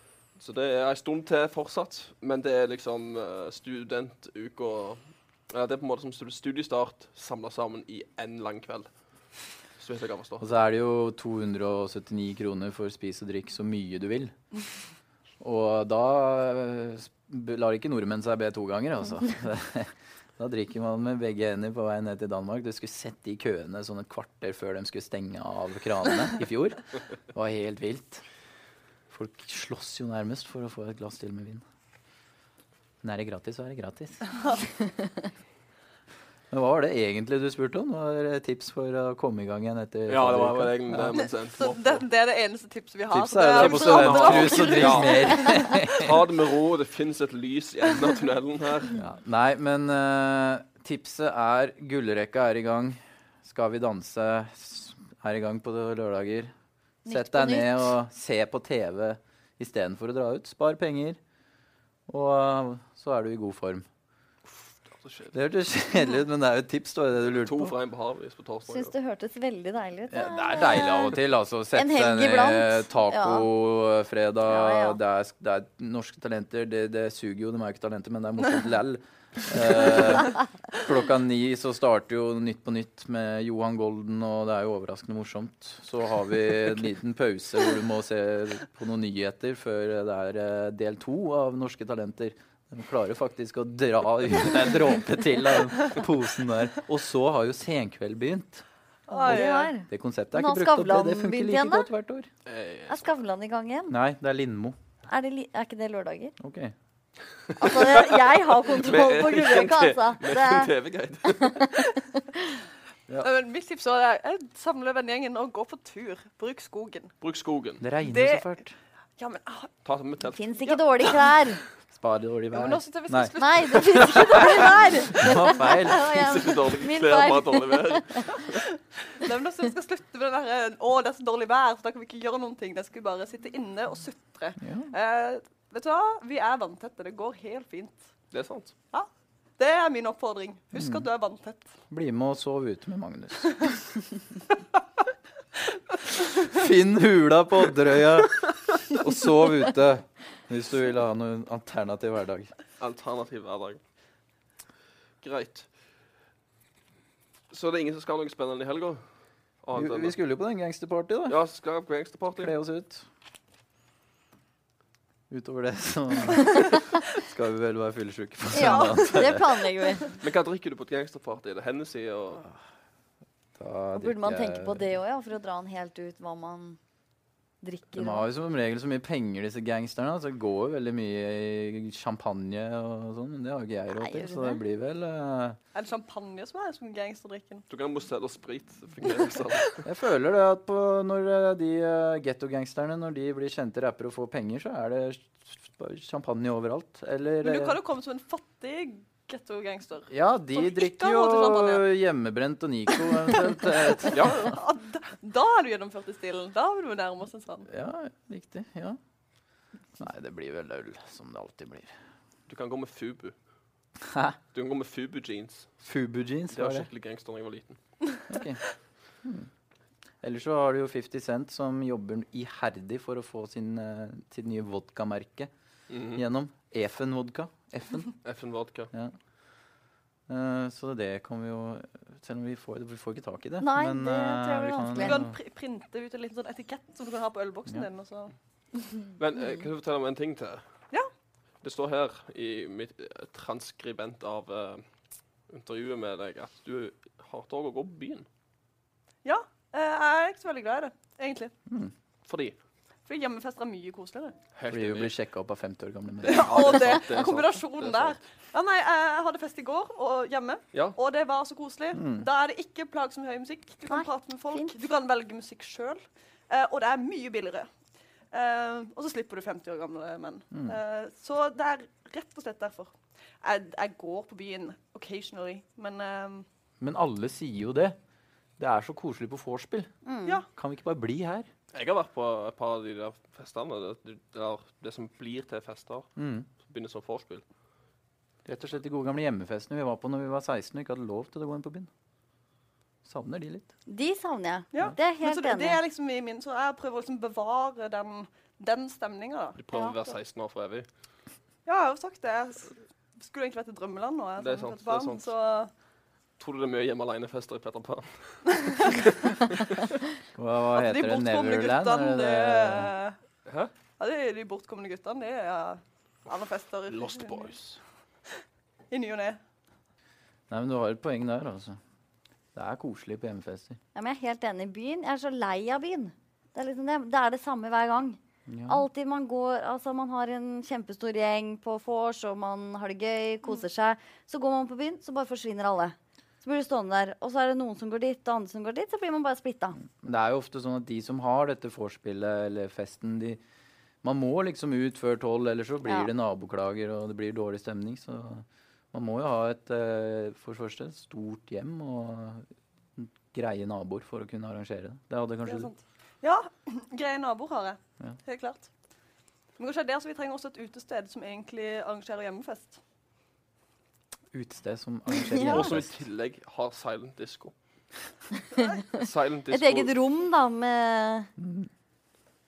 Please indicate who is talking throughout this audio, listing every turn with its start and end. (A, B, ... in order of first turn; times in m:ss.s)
0:00.4-0:08.9 A
0:09.8-0:10.4 A
0:10.4-0:14.3 B
0:15.4-0:28.2 B
0:29.1-0:31.6 B
0:33.0-0:34.5 B
0:36.5-0:41.2 B
0:40.1-0:42.0 A
0:41.2-0:45.2 C
0:43.1-0:46.2 B
0:43.6-0:49.0 A
0:48.9-0:56.5 B
0:57.0-0:57.9 D
0:57.0-1:01.2 B
1:02.1-1:03.8 B
1:04.4-1:05.3 A
1:05.3-1:07.7 B
1:07.2-1:08.9 A
1:08.7-1:11.2 D
1:10.1-1:38.6 B
1:11.7-1:13.5 D
1:14.5-1:15.0 D
1:39.1-1:39.7 C
1:39.1-1:41.9 D
1:39.3-1:42.3 B
1:42.4-1:43.1 A
1:42.9-1:44.0 D
1:43.9-1:44.8 B
1:45.1-1:46.3 D
1:46.4-1:46.7 B
1:47.6-1:50.7 D
1:47.7-1:48.0 A
1:48.7-1:51.6 A
1:51.2-1:52.0 D
1:53.2-1:57.1 C
1:57.2-1:57.8 A
1:57.8-1:58.7 B
1:58.0-1:58.6 C
1:59.2-1:59.7 C
1:59.8-2:00.8 A
2:00.3-2:01.6 D
2:01.9-2:03.3 B
2:02.5-2:04.8 C
2:03.4-2:08.4 D
2:05.1-2:06.1 B
2:05.9-2:08.6 A
2:09.2-2:18.1 C
2:14.6-2:14.9 B
2:18.3-2:18.7 A
2:18.9-2:21.7 C
2:20.7-2:21.1 B
2:21.9-2:23.8 B
2:26.4-2:32.5 B
2:32.8-2:33.8 A
2:35.2-2:35.7 A
2:37.5-2:39.0 A
2:39.6-2:40.2 A
2:39.7-2:41.4 B
2:41.3-2:42.5 A
2:42.4-2:43.0 B
2:45.3-2:49.4 B
2:48.5-2:50.2 D
2:48.5-2:49.2 C
2:50.2-2:52.4 A
2:53.6-2:54.8 B
2:54.0-2:56.8 D
2:57.6-2:58.2 D
2:58.0-3:05.6 B
3:04.0-3:04.6 D
3:05.7-3:07.6 C
3:07.7-3:09.8 A
3:09.8-3:17.8 B
3:17.4-3:21.8 C
3:20.1-3:24.6 B
3:23.1-3:27.7 C
3:24.1-3:24.4 A
3:27.7-3:29.0 B
3:30.0-3:31.9 B
3:32.5-3:33.3 A
3:34.0-3:34.4 B
3:34.5-3:35.7 A
3:35.8-3:36.9 B
3:36.5-3:37.8 A
3:38.3-3:38.6 B
3:39.2-3:39.5 B
3:40.2-3:45.5 B
3:45.9-3:46.2 A
3:46.1-3:48.1 B
3:48.2-3:48.9 A
3:50.3-3:55.3 B
3:53.6-3:55.2 D
3:55.0-3:58.3 C
3:59.2-4:00.6 A
4:01.6-4:04.8 A
4:05.5-4:08.3 A
4:09.2-4:11.5 C
4:11.7-4:11.9 B
4:12.2-4:12.6 A
4:13.0-4:14.4 C
4:14.5-4:15.1 A
4:14.7-4:17.0 B
4:16.2-4:18.2 A
4:16.2-4:27.7 C
4:21.9-4:22.3 B
4:23.9-4:24.7 D
4:28.3-4:36.4 C
4:36.8-4:38.0 B
4:38.6-4:39.9 B
4:40.0-4:40.4 D
4:40.5-4:41.5 B
4:41.7-4:46.1 A
4:46.2-4:46.5 B
4:46.6-4:47.4 A
4:48.4-4:51.9 B
4:53.0-4:53.7 B
4:53.9-4:55.8 D
4:54.7-4:59.6 C
4:59.6-5:00.9 A
4:59.7-5:00.0 D
5:01.6-5:05.7 C
5:04.4-5:05.3 A
5:06.4-5:09.4 A
5:10.3-5:12.9 B
5:10.8-5:13.2 C
5:14.0-5:17.5 C
5:16.9-5:17.8 A
5:18.9-5:19.4 C
5:20.5-5:21.8 B
5:22.5-5:23.8 B
5:23.9-5:39.8 D
5:28.5-5:28.8 B
5:39.8-5:43.4 B
5:44.0-5:52.4 B
5:45.8-5:46.1 D
5:53.0-5:55.7 B
5:55.4-5:58.7 C
5:59.6-6:02.8 C
6:04.3-6:05.9 B
6:05.2-6:05.7 D
6:05.4-6:07.5 A
6:08.6-6:11.3 D
6:08.9-6:09.9 A
6:11.4-6:11.7 B